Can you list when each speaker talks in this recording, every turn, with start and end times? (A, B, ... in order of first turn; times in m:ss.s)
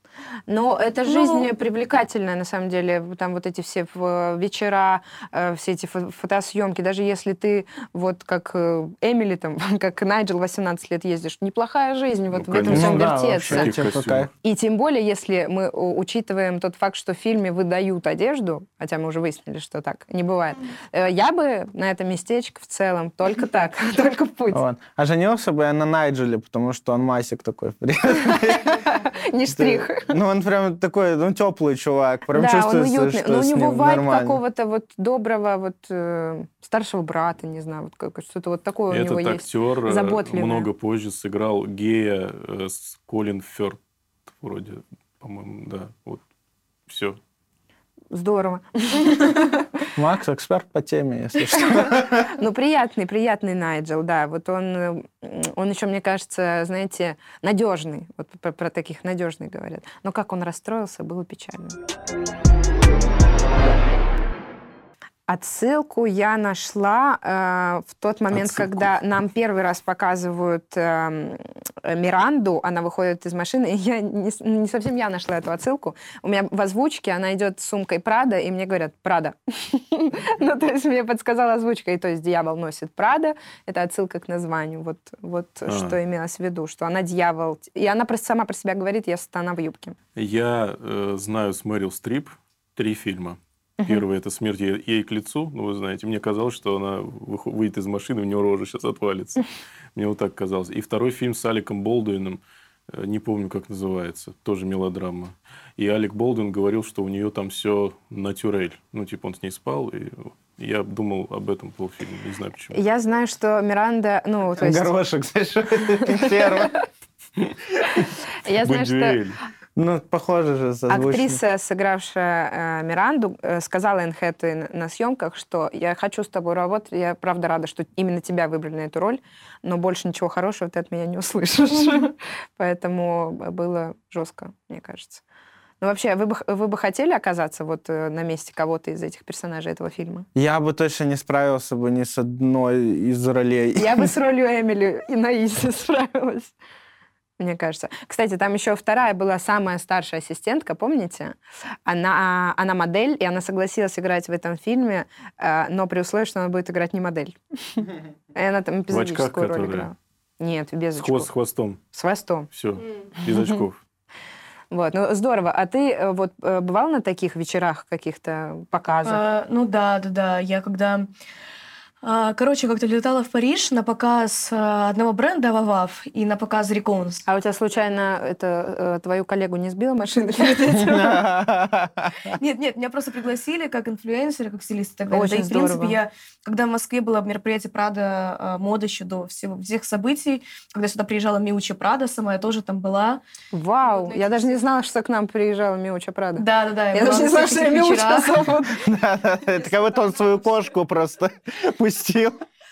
0:00.5-0:13.7 A
0:01.0-0:01.5 B
0:12.3-0:14.3 C
0:12.7-0:14.3 D
0:14.4-0:24.6 A
0:24.5-0:28.8 D
0:28.2-0:30.2 A
0:29.5-0:34.4 D
0:32.3-0:40.7 A
0:38.9-0:46.2 C
0:46.9-0:47.2 C
0:48.1-0:49.7 A
0:50.0-0:52.3 D
0:51.5-1:01.8 A
1:05.3-1:30.0 A
1:08.3-1:08.9 C
1:25.7-1:26.0 C
1:30.2-1:52.8 C
1:52.7-1:54.9 A
1:54.6-1:56.8 D
1:56.2-1:56.4 A
1:57.4-1:58.1 C
1:58.4-1:59.2 A
1:58.6-1:59.4 C
1:59.8-2:01.4 D
2:00.9-2:15.2 A
2:15.8-2:20.3 A
2:20.3-2:24.1 D
2:23.8-2:26.5 A
2:27.4-2:41.3 A
2:38.9-2:39.9 C
2:41.0-2:41.8 C
2:41.9-2:42.5 A
2:42.5-2:43.8 C
2:43.2-2:43.6 A
2:44.7-2:49.2 A
2:49.0-2:51.1 B
2:52.0-2:57.2 B
2:57.2-3:01.3 A
3:00.7-3:02.3 D
3:02.3-3:13.2 B
3:05.1-3:06.0 A
3:13.5-3:18.8 A
3:13.8-3:14.6 B
3:16.4-3:18.5 B
3:18.7-3:22.4 D